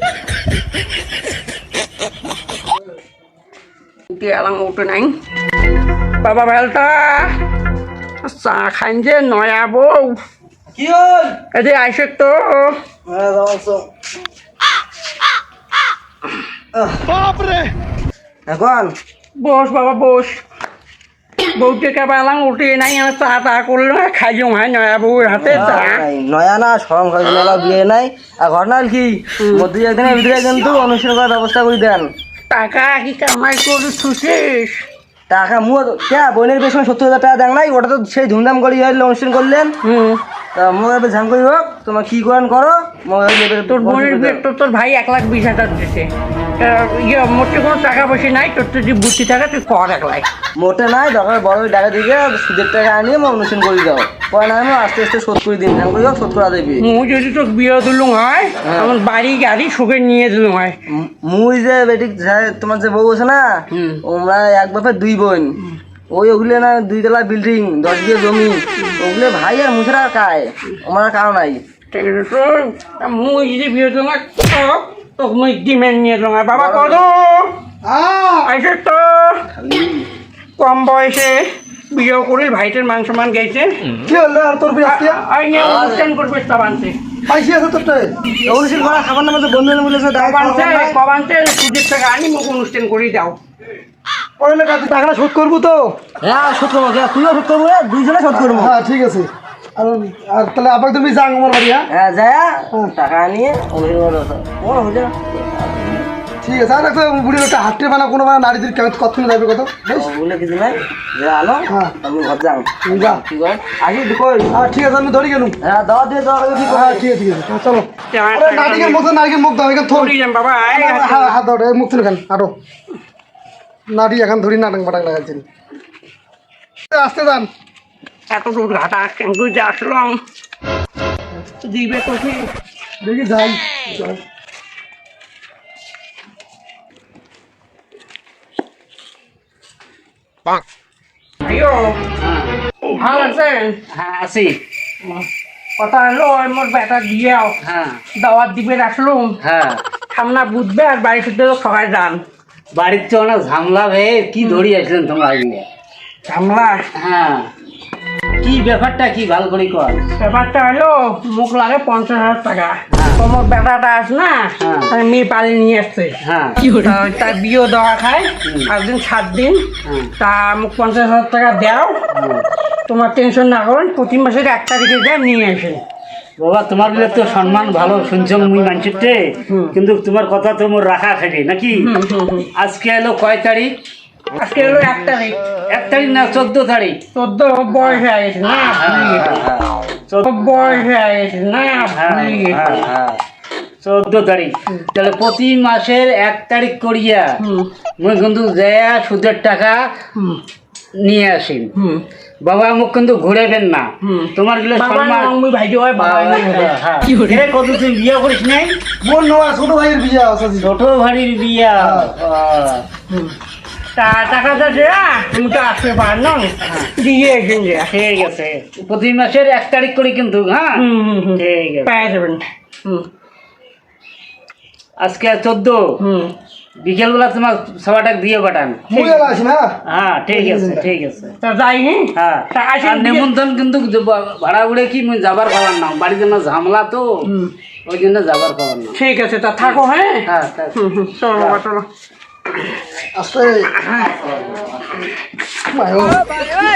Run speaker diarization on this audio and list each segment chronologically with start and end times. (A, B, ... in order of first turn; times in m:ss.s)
0:04.1-0:05.2 A
0:06.2-0:07.4 A
0:08.2-0:10.2 A
0:10.7-0:11.4 B
0:11.5-0:12.8 A
0:13.0-0:13.9 B
0:16.7-0:17.1 B
0:17.1-0:17.7 C
0:18.5-0:18.9 B
0:19.4-0:20.4 A
0:21.6-0:26.0 A
0:25.4-0:32.1 B
0:29.4-0:29.7 A
0:32.5-0:34.8 A
0:35.3-0:39.7 B
0:39.8-0:40.2 A
0:40.5-0:44.4 B
0:43.7-0:50.3 A
0:50.6-0:56.8 B
0:56.8-1:00.8 A
0:58.6-0:59.0 B
1:00.9-1:05.6 B
1:03.7-1:04.0 A
1:06.1-1:11.6 B
1:11.9-1:17.5 A
1:16.5-1:17.0 B
1:17.8-1:18.5 C
1:18.4-1:19.4 A
1:19.5-1:20.1 B
1:20.6-1:23.7 A
1:24.0-1:25.2 C
1:24.8-1:27.0 A
1:25.6-1:26.1 B
1:27.2-1:28.1 C
1:28.4-1:31.0 B
1:30.2-1:33.4 A
1:34.4-1:36.0 C
1:36.2-1:38.8 B
1:38.4-1:41.9 C
1:41.9-1:46.1 B
1:46.4-1:50.1 C
1:49.9-1:54.5 B
1:51.7-1:51.9 C
1:52.8-1:53.2 C
1:54.5-1:55.6 C
1:55.6-1:57.0 B
1:56.7-2:00.1 C
1:58.1-1:59.0 A
1:59.8-2:01.4 A
2:00.7-2:02.5 C
2:03.9-2:05.4 C
2:06.9-2:07.5 C
2:08.3-2:10.2 A
2:11.4-2:12.5 A
2:13.0-2:14.2 C
2:21.4-2:22.0 A
2:22.2-2:22.5 D
2:22.9-2:23.8 A
2:23.9-2:24.6 D
2:25.8-2:27.5 A
2:27.6-2:28.0 D
2:28.2-2:29.4 A
2:29.4-2:29.8 D
2:30.1-2:32.2 A
2:32.7-2:35.6 D
2:34.4-2:34.6 A
2:36.2-2:36.8 A
2:37.0-2:37.5 D
2:38.4-2:40.0 D
2:40.2-2:49.7 A
2:42.9-2:43.2 D
2:44.6-2:44.9 D
2:46.2-2:46.6 D
2:48.4-2:48.7 D
2:49.8-2:50.1 D
2:50.2-2:52.0 A
2:52.1-2:52.4 D
2:52.8-2:55.8 A
2:56.4-3:01.9 D
2:59.5-2:59.7 A
3:01.7-3:02.5 A
3:02.5-3:03.8 D
3:04.4-3:05.4 A
3:05.7-3:07.0 D
3:07.1-3:09.4 A
3:08.7-3:09.4 D
3:09.2-3:09.6 B
3:10.1-3:12.8 A
3:10.6-3:10.8 D
3:11.9-3:12.8 D
3:12.6-3:13.2 B
3:13.8-3:17.4 D
3:17.4-3:17.7 A
3:18.0-3:19.9 D
3:20.2-3:20.4 A
3:21.0-3:21.7 D
3:21.7-3:22.0 A
3:22.4-3:25.3 D
3:24.0-3:27.4 A
3:26.0-3:28.8 D
3:29.0-3:30.7 C
3:30.6-3:32.8 D
3:31.8-3:32.1 C
3:34.0-3:37.9 A
3:36.6-3:36.9 D
3:37.9-3:40.8 D
3:40.8-3:43.1 A
3:41.3-3:41.9 D
3:45.0-3:45.8 D
3:46.0-3:46.3 A
3:46.8-3:48.8 D
3:48.9-3:49.7 C
3:48.9-3:49.3 A
3:49.9-3:51.3 D
3:50.3-3:50.8 C
3:51.4-3:53.3 A
3:52.1-3:57.1 D
3:57.2-3:57.5 A
3:57.8-3:59.0 D
3:58.9-4:00.2 A
3:59.6-4:00.7 D
4:00.7-4:01.8 A
4:03.1-4:03.7 C
4:03.8-4:04.1 A
4:05.7-4:06.2 C